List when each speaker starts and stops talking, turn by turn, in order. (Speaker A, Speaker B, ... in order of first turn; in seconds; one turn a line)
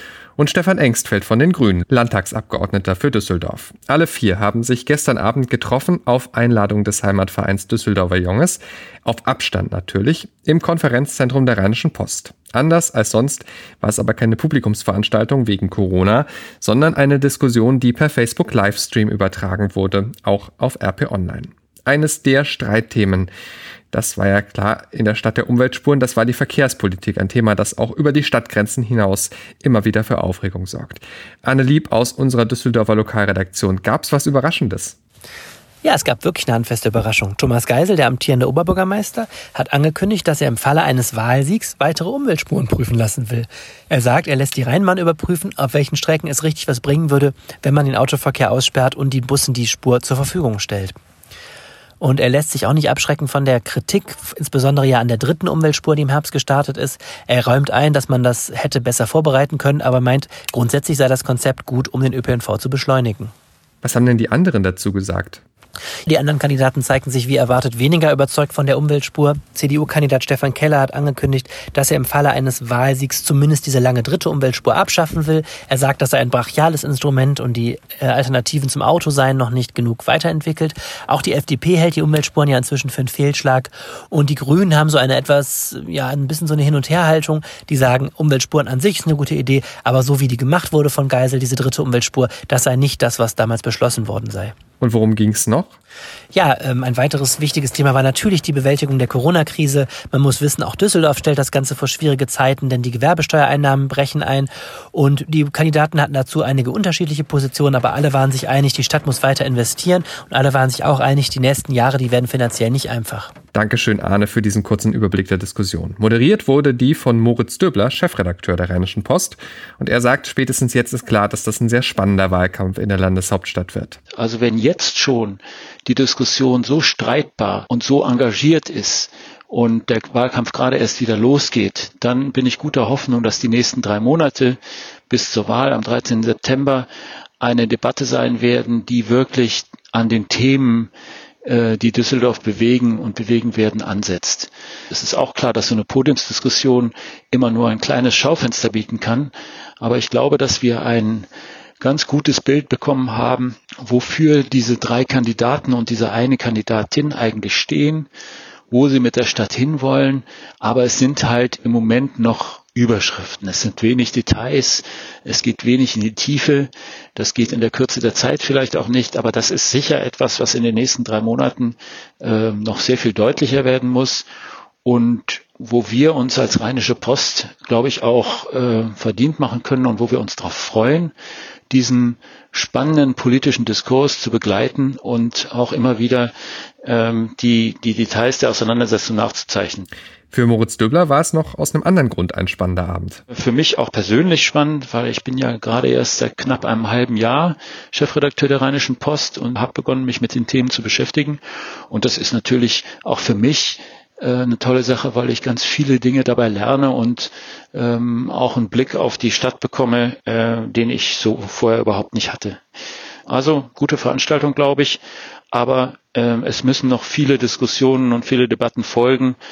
Speaker A: 0.4-23.3
Speaker A: 23.9-35.0
Speaker B: 35.8-51.0
Speaker B: 52.0-63.3
Speaker A: 63.8-65.4
Speaker B: 66.0-94.5
Speaker A: 94.8-95.8
Speaker B: 96.3-113.3
Speaker A: 113.5-124.0
Speaker C: 124.2-134.6
Speaker C: 135.1-136.9
Speaker C: 137.4-140.9
Speaker C: 141.4-151.3
Speaker C: 151.8-158.1
Speaker C: 158.7-174.2
Speaker C: 174.8-181.1
Speaker C: 181.7-186.3
Speaker C: 186.8-189.9
Speaker A: 190.3-193.2
Speaker C: 193.3-201.4
Speaker C: 201.9-212.6
Speaker C: 213.3-215.0
Speaker C: 215.5-219.4